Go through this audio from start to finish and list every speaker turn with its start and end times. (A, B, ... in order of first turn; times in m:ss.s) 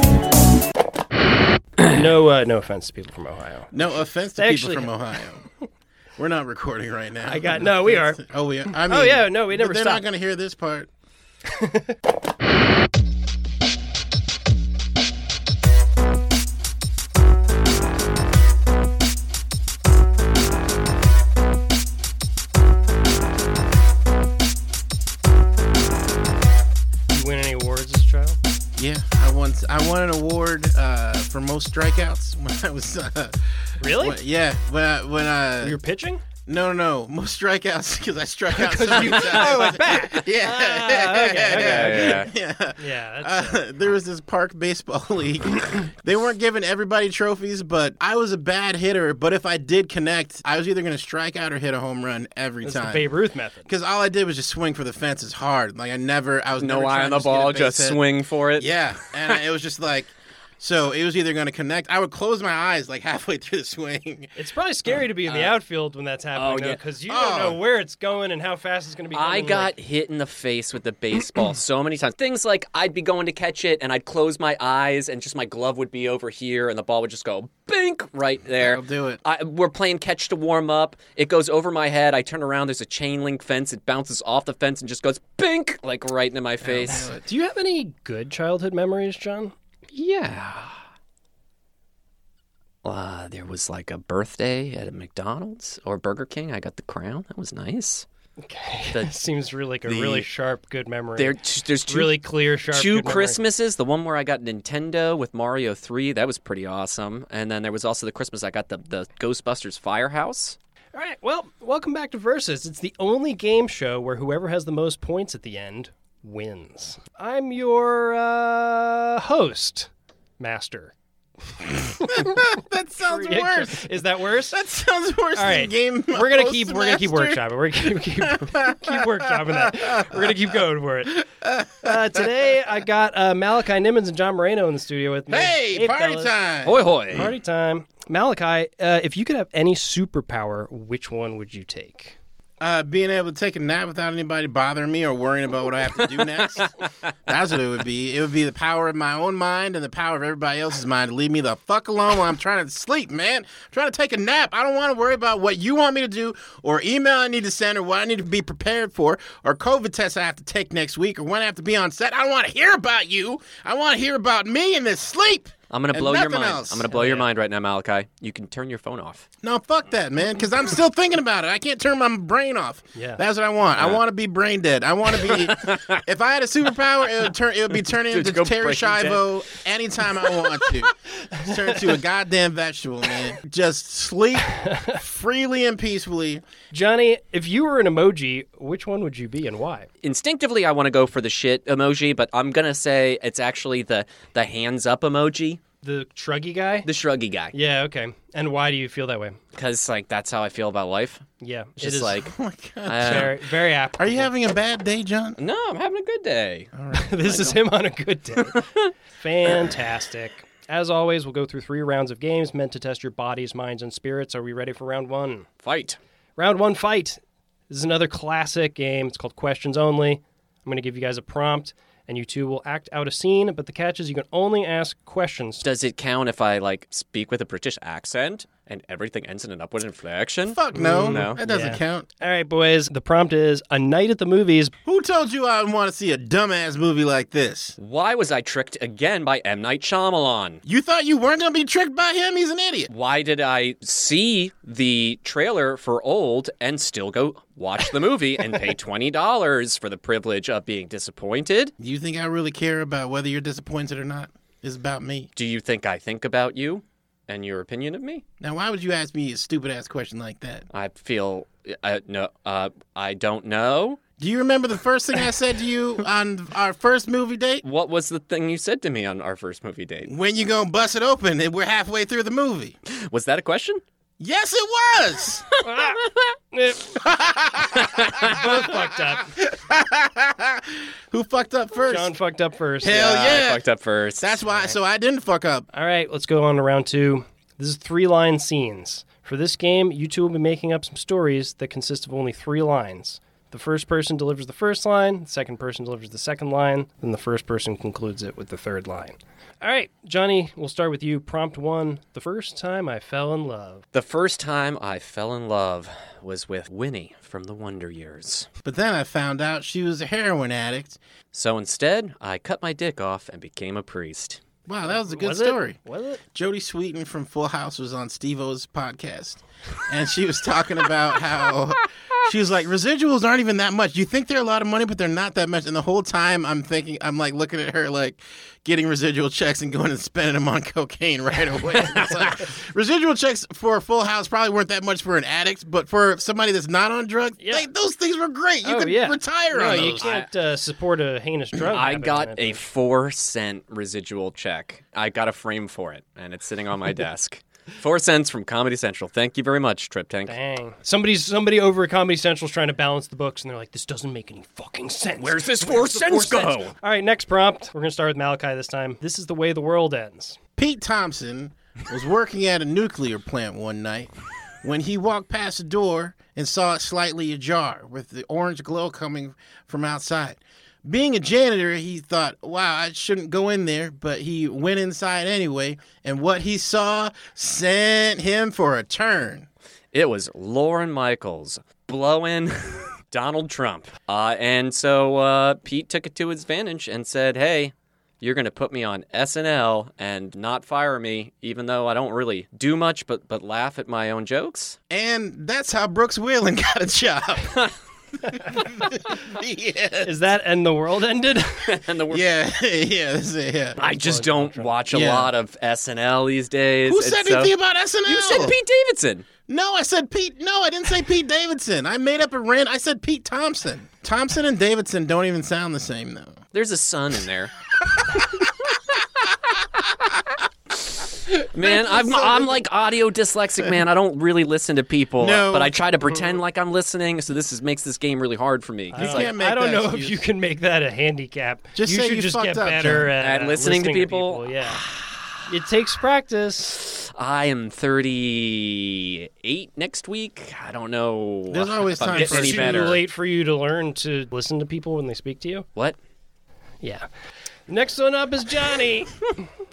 0:01.8-0:05.4 A
0:03.7-0:05.5 B
0:06.2-0:10.9 B
0:07.2-0:10.0 A
0:11.6-0:11.9 A
0:27.1-0:28.4 A
0:28.8-0:35.8 B
0:33.8-0:34.2 A
0:35.6-0:36.2 A
0:36.5-0:53.1 B
0:38.5-0:42.3 A
0:41.5-0:42.3 C
0:42.8-0:43.7 A
0:52.6-0:53.7 A
0:53.7-0:58.0 B
0:56.6-0:58.8 C
0:58.6-1:04.3 B
1:04.4-1:09.7 A
1:05.3-1:05.6 C
1:06.4-1:06.8 C
1:07.1-1:07.6 B
1:09.1-1:27.1 C
1:18.6-1:19.2 B
1:26.6-1:27.2 B
1:26.9-1:29.5 A
1:29.9-1:30.8 C
1:32.8-1:38.1 C
1:38.4-1:43.4 A
1:38.9-1:39.2 C
1:39.8-1:40.3 C
1:41.2-1:50.6 C
1:50.9-1:59.9 A
2:00.4-2:00.9 A
2:02.0-2:10.4 B
2:02.0-2:02.4 A
2:03.0-2:04.6 A
2:05.4-2:11.3 A
2:11.8-2:16.4 A
2:15.3-2:17.3 B
2:16.6-2:17.3 C
2:17.0-2:22.2 A
2:22.6-2:26.8 B
2:26.0-2:26.7 C
2:27.3-2:46.9 B
2:45.7-2:49.3 C
2:46.9-2:47.3 A
2:49.4-3:06.4 B
2:53.0-2:53.2 A
2:55.1-2:56.0 C
2:58.1-2:59.3 C
3:01.4-3:01.9 A
3:06.7-3:09.9 A
3:10.0-3:15.6 C
3:15.8-3:16.9 A
3:16.8-3:17.5 C
3:17.5-3:19.4 A
3:19.6-3:21.2 C
3:21.4-3:22.2 A
3:21.8-3:22.3 C
3:22.2-3:23.4 B
3:22.9-3:23.3 C
3:23.0-3:24.3 A
3:24.0-3:25.4 B
3:25.4-3:26.7 C
3:26.7-3:27.3 B
3:26.9-3:28.6 A
3:27.3-3:27.6 C
3:29.2-3:35.5 A
3:35.6-3:36.0 C
3:36.4-3:45.6 A
3:45.6-3:51.4 C
3:50.5-3:52.1 B
3:50.7-3:54.7 A
3:54.8-3:57.8 B
3:57.8-4:00.6 C
4:00.6-4:02.9 B
4:02.9-4:11.7 C
4:11.8-4:15.3 B
4:15.4-4:18.2 C
4:18.4-4:20.7 B
4:20.7-4:24.0 C
4:24.2-4:27.6 B
4:27.6-4:30.1 C
4:30.1-4:32.7 B
4:32.9-4:33.8 C
4:34.2-4:35.5 B
4:35.6-4:37.0 A
4:37.0-4:38.8 B
4:37.8-4:38.4 C
4:38.2-4:39.3 A
4:39.4-4:42.1 B
4:41.9-4:43.2 A
4:42.8-4:43.6 B
4:42.8-4:44.4 C
4:44.2-4:45.7 B
4:45.7-5:03.8 A
5:03.9-5:08.5 C
5:08.6-5:11.0 B
5:11.3-5:14.4 C
5:14.7-5:15.8 B
5:14.9-5:16.2 A
5:16.3-5:40.1 B
5:37.4-5:37.7 A
5:38.6-5:42.6 A
5:39.6-5:40.3 C
5:41.6-5:50.4 C
5:50.3-6:00.4 A
5:55.2-5:56.7 C
6:00.6-6:04.1 B
6:04.6-6:19.5 B
6:19.9-6:34.8 C
6:34.9-6:37.6 B
6:38.2-6:40.2 B
6:40.0-6:41.7 A
6:41.6-6:42.2 C
6:42.1-6:43.8 B
6:43.8-6:44.8 A
6:43.8-6:49.3 C
6:44.9-6:45.3 B
6:46.9-6:48.6 B
6:49.5-6:56.4 B
6:56.5-6:57.5 C
7:01.5-7:09.3 C
7:01.6-7:02.6 B
7:05.2-7:05.8 B
7:08.9-7:14.8 A
7:09.0-7:10.2 B
7:11.8-7:13.1 B
7:13.2-7:15.3 C
7:15.5-7:16.8 A
7:16.9-7:23.0 C
7:21.5-7:23.0 B
7:22.1-7:25.7 A
7:27.7-7:29.2 A